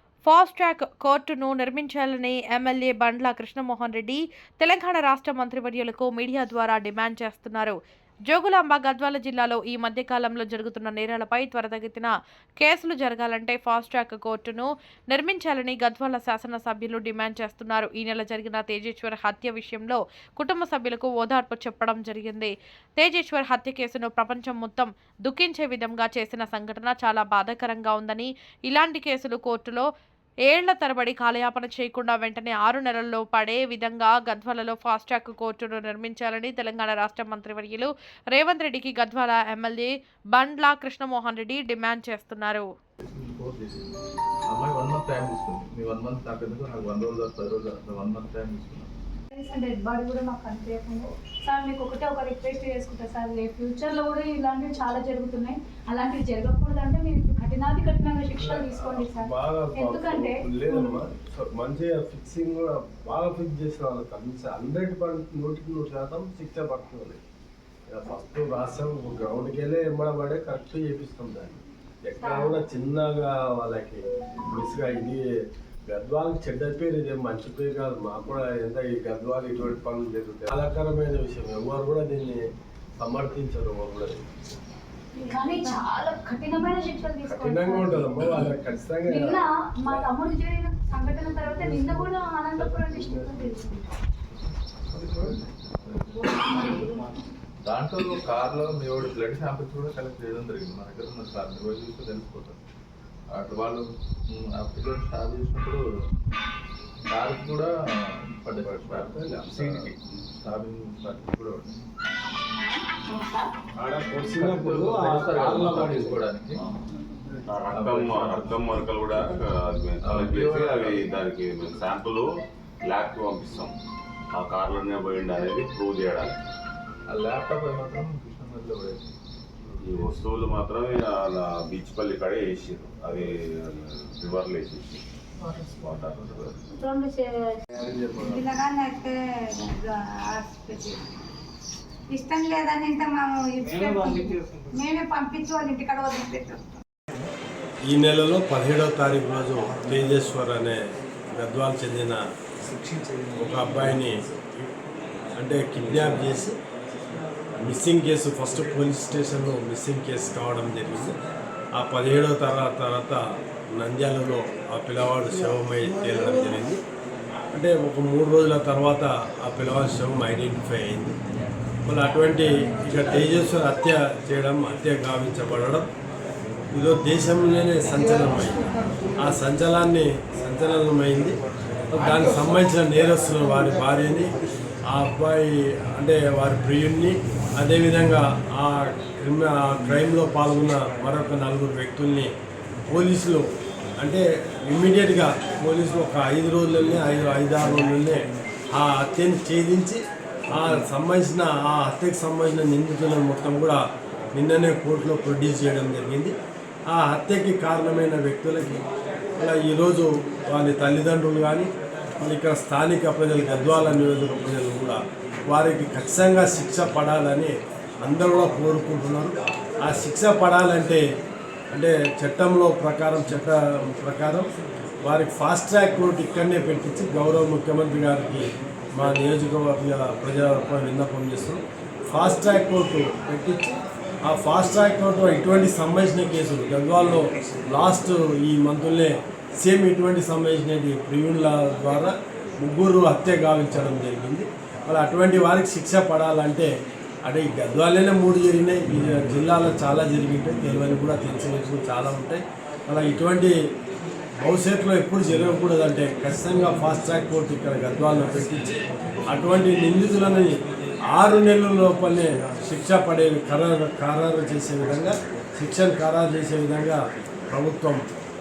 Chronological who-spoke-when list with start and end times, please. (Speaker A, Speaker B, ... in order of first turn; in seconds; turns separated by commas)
Speaker A: 0.2-7.8, Speaker A: 8.3-29.9, Speaker A: 30.5-42.6, Speaker B: 43.0-43.9, Speaker B: 44.5-48.9, Speaker C: 49.3-61.0, Speaker D: 58.4-67.2, Speaker D: 67.9-75.2, Speaker C: 72.2-72.6, Speaker D: 75.9-82.4, Speaker D: 83.0-84.3, Speaker C: 85.2-88.5, Speaker D: 87.2-89.3, Speaker C: 89.1-93.8, Speaker D: 91.4-93.5, Speaker B: 94.3-96.9, Speaker D: 94.9-95.4, Speaker C: 96.1-97.1, Speaker B: 97.6-102.6, Speaker B: 103.3-105.8, Speaker B: 107.1-111.8, Speaker D: 108.6-109.8, Speaker E: 112.6-113.5, Speaker D: 113.8-116.2, Speaker B: 114.3-116.6, Speaker F: 117.5-122.2, Speaker B: 117.7-119.3, Speaker B: 120.0-121.2, Speaker F: 122.8-123.7, Speaker F: 124.3-126.3, Speaker B: 127.1-129.1, Speaker F: 129.8-135.0, Speaker B: 135.5-136.5, Speaker F: 135.6-136.5, Speaker E: 136.7-137.2, Speaker E: 138.1-141.0, Speaker E: 142.1-146.6, Speaker D: 147.9-150.8, Speaker D: 151.3-152.2, Speaker D: 153.3-154.6, Speaker D: 155.4-156.5, Speaker D: 157.6-161.1, Speaker D: 161.8-163.2, Speaker D: 163.8-166.8, Speaker D: 167.5-171.2, Speaker D: 171.8-175.8, Speaker D: 176.7-178.6, Speaker D: 179.2-181.4, Speaker D: 181.9-184.3, Speaker D: 184.9-192.3, Speaker D: 192.9-193.4, Speaker D: 194.0-200.0, Speaker D: 200.5-203.8, Speaker D: 204.3-206.3, Speaker D: 206.9-208.8, Speaker D: 209.4-211.7, Speaker D: 212.2-217.5, Speaker D: 218.0-221.0, Speaker D: 221.7-224.5, Speaker D: 225.0-246.7, Speaker D: 247.2-253.5, Speaker D: 254.4-258.8, Speaker D: 259.3-260.5, Speaker D: 261.1-268.1